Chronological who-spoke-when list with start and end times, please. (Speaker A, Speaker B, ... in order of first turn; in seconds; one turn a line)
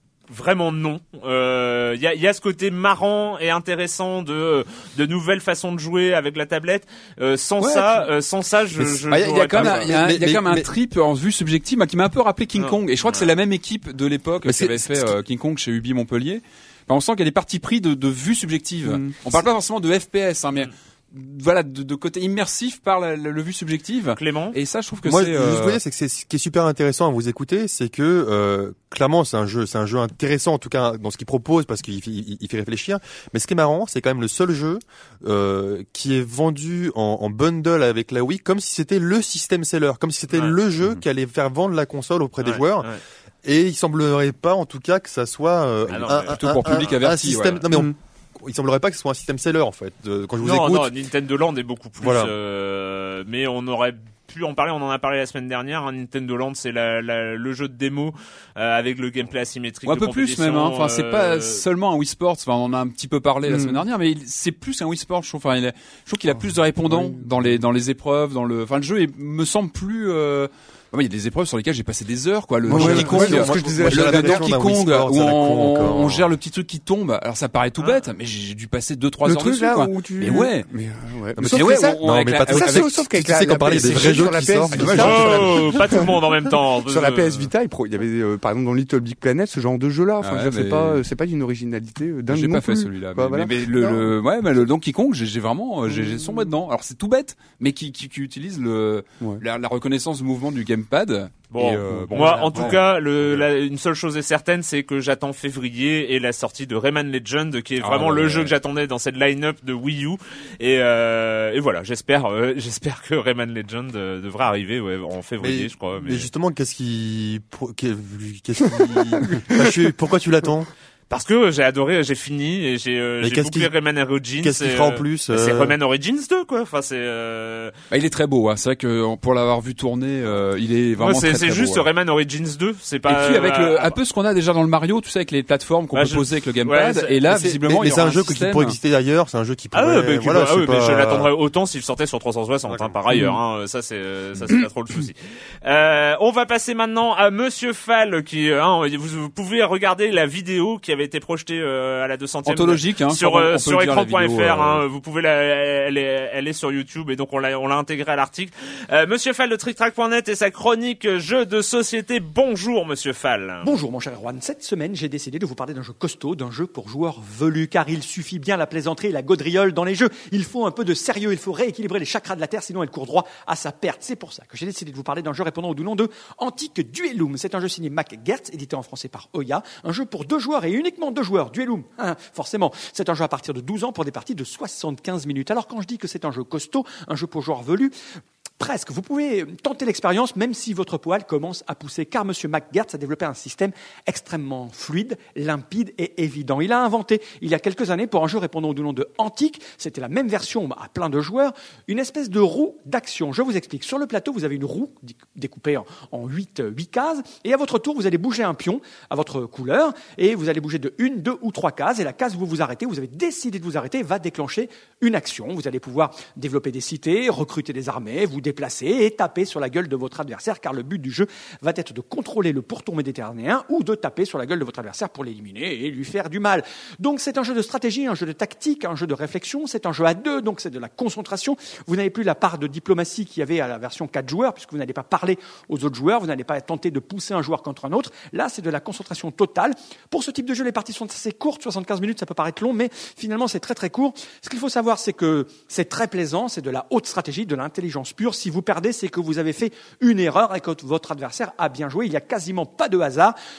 Speaker A: 0.3-9.9
Speaker B: 7.6-8.1
Speaker B: 9.1-25.8
Speaker C: 9.5-10.7
Speaker A: 12.6-13.3
Speaker C: 14.4-15.1
Speaker D: 18.8-19.1
Speaker A: 24.2-24.6
Speaker C: 25.0-50.9
Speaker A: 40.3-40.6
Speaker A: 42.4-43.0
Speaker A: 45.9-46.4
Speaker B: 46.3-47.6
Speaker A: 50.4-61.6
Speaker C: 52.0-52.3
Speaker B: 59.8-80.7
Speaker D: 63.4-63.8
Speaker D: 66.3-67.6
Speaker D: 72.7-74.4
Speaker C: 72.7-76.3
Speaker D: 79.2-86.1
Speaker C: 81.4-85.6
Speaker B: 81.4-83.0
Speaker B: 83.7-85.5
Speaker A: 85.0-87.5
Speaker D: 86.8-94.2
Speaker B: 90.2-91.0
Speaker B: 92.3-103.5
Speaker D: 95.8-96.5
Speaker A: 101.5-116.3
Speaker D: 101.8-102.8
Speaker B: 107.8-108.5
Speaker C: 115.4-120.7
Speaker D: 118.7-119.9
Speaker A: 121.1-127.7
Speaker C: 123.2-123.7
Speaker C: 124.4-125.8
Speaker B: 127.9-131.9
Speaker A: 131.0-133.9
Speaker B: 133.1-138.8
Speaker A: 135.9-137.4
Speaker C: 137.3-141.3
Speaker A: 139.7-163.7
Speaker C: 142.7-142.9
Speaker B: 152.4-154.8
Speaker E: 163.6-187.9
Speaker E: 188.6-253.3